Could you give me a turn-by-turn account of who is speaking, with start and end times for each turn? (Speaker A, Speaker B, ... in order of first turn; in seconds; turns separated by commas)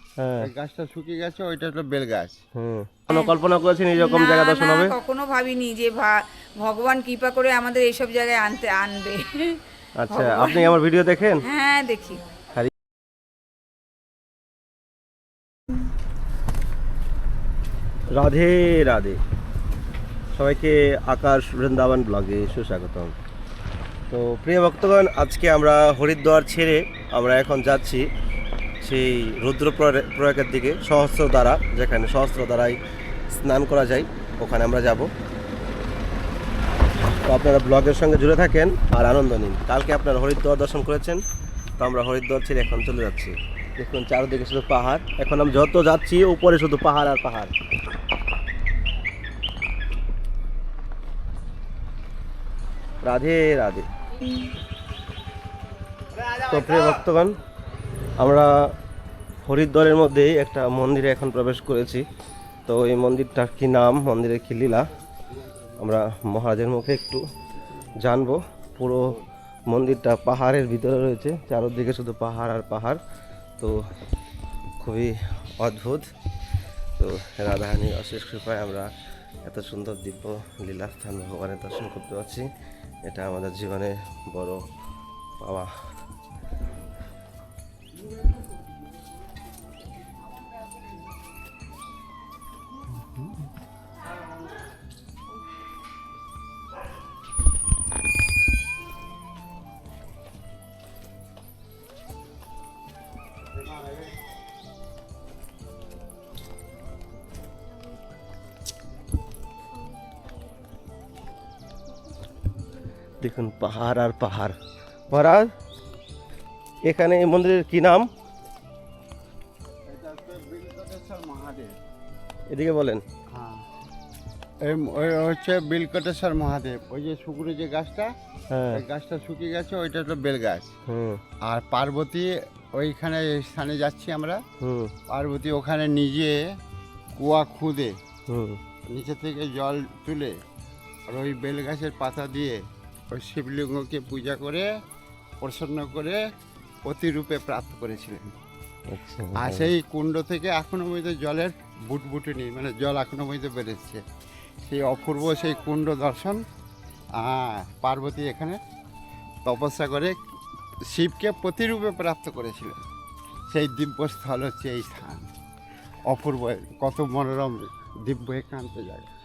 Speaker A: 0.2-0.5, Speaker B: 0.4-2.4, Speaker A: 2.5-4.9, Speaker C: 3.1-3.3, Speaker C: 4.0-10.8, Speaker A: 10.0-11.4, Speaker C: 11.4-12.2, Speaker A: 18.1-19.2, Speaker A: 20.3-23.1, Speaker A: 24.1-28.0, Speaker A: 28.8-32.8, Speaker A: 33.3-35.1, Speaker A: 37.2-41.2, Speaker A: 41.8-47.5, Speaker A: 53.0-53.9, Speaker A: 56.4-57.3, Speaker A: 58.2-58.5, Speaker A: 59.4-62.0, Speaker A: 62.7-64.8, Speaker A: 65.8-67.2, Speaker A: 68.0-73.0, Speaker A: 74.8-76.0, Speaker A: 77.0-78.9, Speaker A: 79.4-82.5, Speaker A: 83.0-84.6, Speaker A: 85.4-85.7, Speaker B: 93.0-93.5, Speaker A: 113.2-114.5, Speaker A: 115.1-115.5, Speaker A: 116.8-118.1, Speaker B: 119.9-121.8, Speaker A: 122.5-123.0, Speaker B: 123.3-123.7, Speaker B: 124.6-128.1, Speaker A: 128.5-128.8, Speaker B: 128.7-130.7, Speaker A: 130.9-131.2, Speaker B: 131.4-134.4, Speaker A: 134.6-134.9, Speaker B: 135.1-136.3, Speaker B: 137.2-137.9, Speaker A: 138.3-138.6, Speaker B: 138.9-140.3, Speaker B: 141.1-142.6, Speaker B: 143.1-144.7, Speaker B: 145.4-146.2, Speaker B: 146.8-148.3, Speaker A: 148.9-149.7, Speaker B: 149.4-154.0, Speaker B: 154.6-156.4, Speaker B: 157.2-158.6, Speaker B: 159.4-160.2, Speaker B: 160.9-162.8, Speaker B: 163.5-165.3, Speaker B: 166.1-169.1